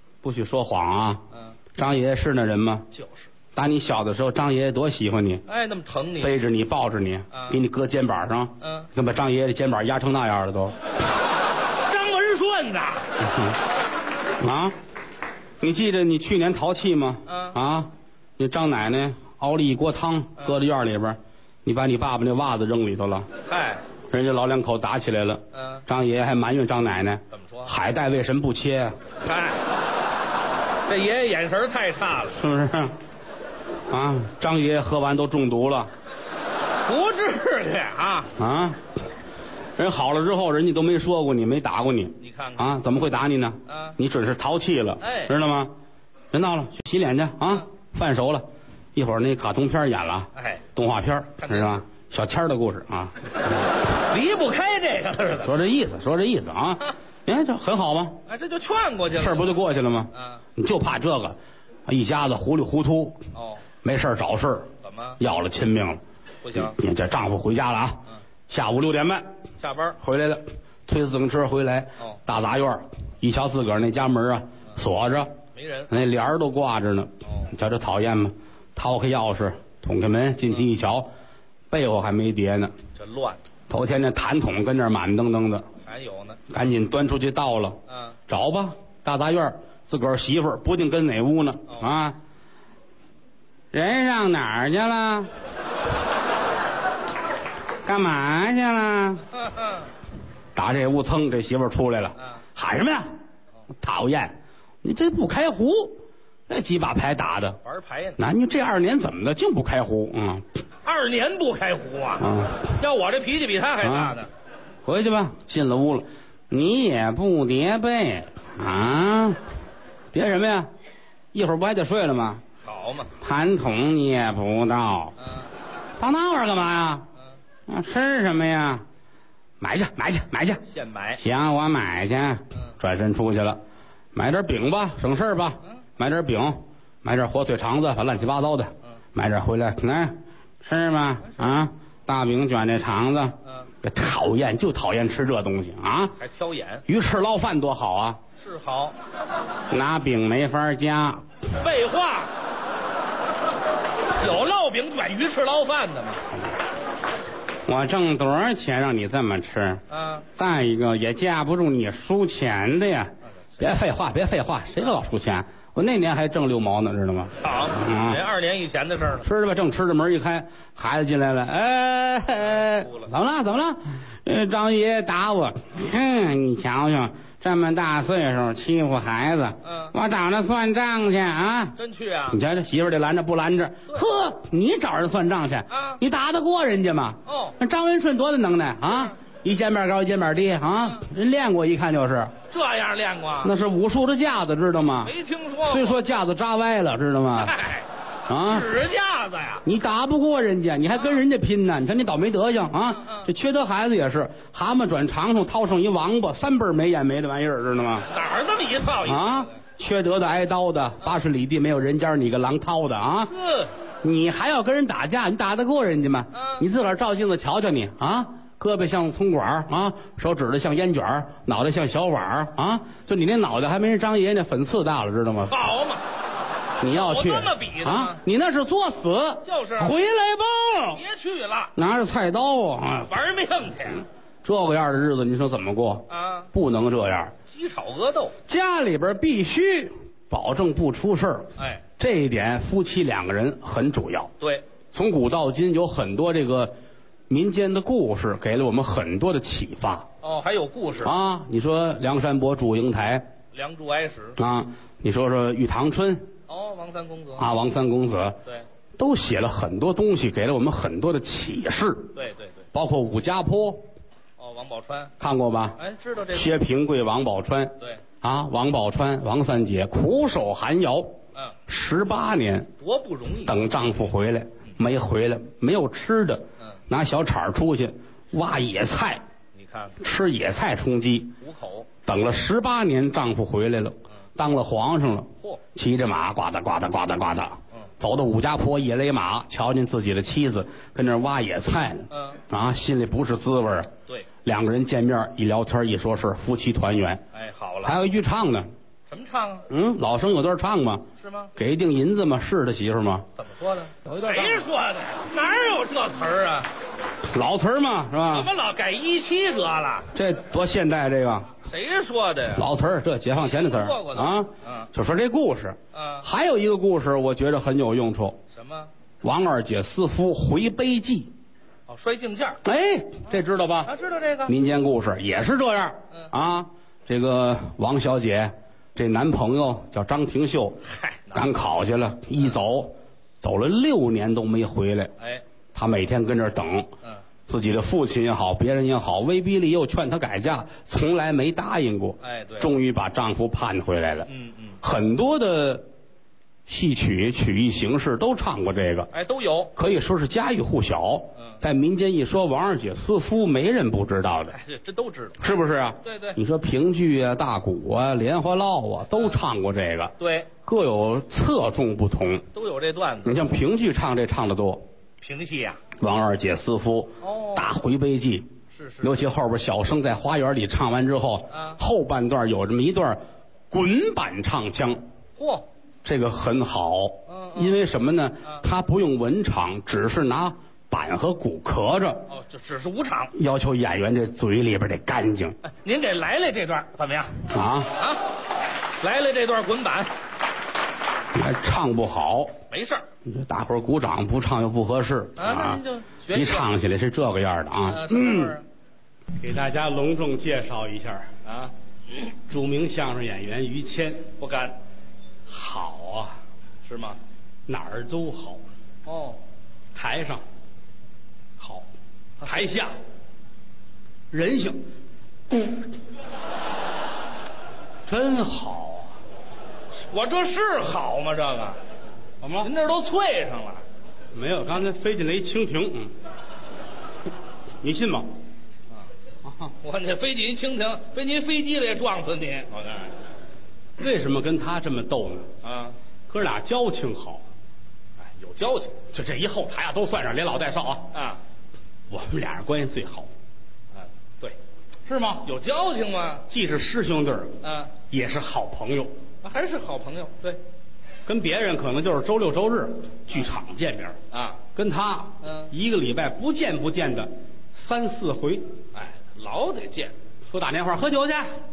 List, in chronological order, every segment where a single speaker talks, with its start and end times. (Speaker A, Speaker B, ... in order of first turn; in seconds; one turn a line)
Speaker A: 0.2-1.2
Speaker B: 1.3-1.6
Speaker A: 1.7-2.8
Speaker B: 2.9-3.3
Speaker A: 3.5-5.4
Speaker B: 5.5-6.3
Speaker A: 6.2-10.8
Speaker B: 7.3-7.6
Speaker B: 8.6-8.9
Speaker B: 11.8-13.1
Speaker A: 13.2-13.6
Speaker A: 14.4-14.7
Speaker A: 15.6-23.3
Speaker B: 17.3-17.6
Speaker B: 23.5-23.8
Speaker A: 24.1-28.9
Speaker B: 25.5-25.8
Speaker B: 27.3-27.7
Speaker B: 29.2-29.7
Speaker B: 30.9-32.4
Speaker A: 32.4-32.9
Speaker A: 33.9-35.9
Speaker B: 36.9-38.3
Speaker A: 38.4-38.8
Speaker A: 39.8-45.7
Speaker B: 42.2-42.7
Speaker B: 43.7-43.9
Speaker B: 45.0-45.3
Speaker A: 46.3-53.7
Speaker B: 50.3-50.6
Speaker B: 51.4-51.7
Speaker B: 53.9-55.5
Speaker A: 55.4-58.2
Speaker B: 58.2-59.6
Speaker A: 59.1-63.2
Speaker B: 60.1-60.4
Speaker B: 63.3-63.6
Speaker A: 63.8-66.0
Speaker B: 64.8-65.2
Speaker B: 66.4-66.8
Speaker A: 66.5-69.2
Speaker B: 69.6-70.0
Speaker A: 70.0-75.3
Speaker B: 75.5-75.9
Speaker A: 75.9-81.1
Speaker A: 81.7-82.7
Speaker B: 82.9-83.4
Speaker A: 83.7-85.6
Speaker B: 85.8-86.4
Speaker A: 86.5-92.2
Speaker B: 87.9-88.2
Speaker A: 93.7-95.3
Speaker A: 97.8-99.2
Speaker B: 99.3-99.9
Speaker A: 100.5-103.1
Speaker A: 103.8-107.6
Speaker B: 107.6-108.2
Speaker A: 108.2-110.4
Speaker B: 110.8-114.3
Speaker A: 112.2-112.7
Speaker A: 113.8-114.2
Speaker A: 114.8-119.4
Speaker A: 120.1-120.7
Speaker A: 121.3-122.4
Speaker B: 122.6-123.1
Speaker A: 123.2-125.1
Speaker B: 125.2-125.5
Speaker A: 126.0-127.1
Speaker A: 127.7-128.8
Speaker A: 129.6-130.6
Speaker B: 130.7-131.2
Speaker A: 131.2-133.6
Speaker A: 134.1-146.2
Speaker B: 146.2-146.8
Speaker A: 146.9-148.2
Speaker B: 148.4-148.9
Speaker A: 149.7-151.2
Speaker B: 151.5-152.3
Speaker B: 154.1-156.2
Speaker A: 157.7-159.8
Speaker B: 159.9-160.2
Speaker A: 160.3-168.2
Speaker B: 167.4-169.2
Speaker A: 169.2-181.8
Speaker B: 172.4-173.1
Speaker B: 179.6-179.9
Speaker B: 181.8-182.4
Speaker A: 182.3-192.3
Speaker B: 185.7-186.0
Speaker B: 187.2-187.5
Speaker B: 192.5-193.5
Speaker A: 193.4-195.1
Speaker B: 195.0-196.0
Speaker A: 195.6-197.5
Speaker B: 197.3-197.9
Speaker A: 198.3-198.7
Speaker B: 198.4-199.6
Speaker A: 199.6-208.1
Speaker B: 208.1-209.5
Speaker A: 209.0-213.3
Speaker B: 213.3-213.7
Speaker A: 214.0-225.6
Speaker B: 216.3-216.6
Speaker B: 225.5-226.0
Speaker A: 226.8-231.0
Speaker B: 226.8-228.2
Speaker B: 229.4-229.9
Speaker B: 230.9-231.7
Speaker A: 231.8-233.1
Speaker B: 233.0-234.1
Speaker A: 234.4-237.3
Speaker B: 236.1-236.5
Speaker B: 237.5-238.3
Speaker A: 238.5-244.3
Speaker B: 241.6-241.8
Speaker B: 244.4-244.6
Speaker A: 244.9-246.7
Speaker A: 247.3-250.1
Speaker B: 250.2-251.1
Speaker A: 251.0-253.2
Speaker B: 253.5-254.4
Speaker A: 254.4-256.3
Speaker B: 256.5-257.5
Speaker A: 257.4-258.4
Speaker A: 259.0-262.1
Speaker B: 262.1-262.6
Speaker A: 262.7-263.8
Speaker B: 264.4-265.1
Speaker A: 265.2-265.8
Speaker B: 265.8-266.5
Speaker A: 266.3-271.1
Speaker A: 271.7-272.7
Speaker B: 272.8-273.6
Speaker A: 273.4-279.2
Speaker B: 279.5-279.9
Speaker A: 280.0-281.3
Speaker B: 281.4-281.9
Speaker A: 282.0-293.9
Speaker B: 292.1-292.4
Speaker A: 294.4-297.2
Speaker B: 297.3-298.0
Speaker A: 297.8-298.7
Speaker B: 299.1-299.7
Speaker A: 299.7-303.2
Speaker B: 301.2-301.5
Speaker B: 303.4-306.7
Speaker A: 304.0-304.7
Speaker A: 307.3-308.5
Speaker B: 308.2-310.1
Speaker A: 310.1-311.5
Speaker B: 311.6-312.7
Speaker A: 312.5-318.4
Speaker B: 313.3-314.9
Speaker B: 315.9-316.2
Speaker B: 318.5-318.9
Speaker A: 319.2-321.3
Speaker B: 321.9-322.6
Speaker A: 322.6-323.9
Speaker B: 323.9-324.5
Speaker A: 324.5-330.8
Speaker B: 330.8-331.5
Speaker A: 331.3-335.1
Speaker A: 335.7-336.9
Speaker A: 337.5-344.3
Speaker B: 342.2-342.7
Speaker B: 344.2-344.8
Speaker A: 344.8-345.8
Speaker A: 346.7-349.1
Speaker B: 349.1-349.7
Speaker A: 349.8-354.6
Speaker B: 354.5-355.4
Speaker A: 355.4-362.4
Speaker B: 356.0-356.4
Speaker B: 360.2-360.5
Speaker B: 362.5-363.4
Speaker A: 363.2-364.8
Speaker B: 365.2-365.8
Speaker A: 366.0-368.5
Speaker B: 367.2-367.7
Speaker B: 368.7-369.2
Speaker A: 369.0-375.0
Speaker B: 371.5-371.8
Speaker B: 375.4-375.6
Speaker A: 376.0-382.3
Speaker B: 377.3-377.8
Speaker B: 382.3-383.3
Speaker A: 383.3-385.6
Speaker B: 385.6-388.2
Speaker A: 387.5-387.9
Speaker B: 389.0-390.1
Speaker A: 391.3-392.5
Speaker B: 392.7-393.1
Speaker A: 393.2-398.6
Speaker B: 395.4-396.7
Speaker B: 397.9-398.6
Speaker A: 399.4-401.3
Speaker B: 401.4-401.7
Speaker A: 402.5-404.3
Speaker B: 404.4-404.8
Speaker A: 405.5-406.4
Speaker B: 406.8-407.2
Speaker A: 407.7-408.6
Speaker B: 409.1-409.4
Speaker A: 409.9-410.4
Speaker A: 411.6-411.8
Speaker A: 412.4-413.0
Speaker A: 414.3-414.8
Speaker A: 415.5-415.9
Speaker A: 418.1-419.1
Speaker B: 420.1-421.8
Speaker A: 422.4-422.7
Speaker B: 422.6-423.8
Speaker A: 424.3-426.1
Speaker A: 427.8-428.3
Speaker A: 429.4-429.7
Speaker B: 429.8-433.1
Speaker A: 434.0-435.5
Speaker B: 435.6-436.0
Speaker A: 436.3-437.4
Speaker B: 438.2-439.0
Speaker A: 439.1-441.1
Speaker B: 441.1-441.4
Speaker A: 442.1-443.3
Speaker B: 443.9-444.6
Speaker A: 445.1-445.4
Speaker B: 445.4-446.4
Speaker A: 446.5-449.1
Speaker B: 447.6-447.9
Speaker B: 449.4-450.6
Speaker A: 451.2-454.2
Speaker B: 454.3-454.6
Speaker A: 454.7-458.7
Speaker B: 455.4-455.7
Speaker B: 458.9-460.1
Speaker A: 460.5-461.5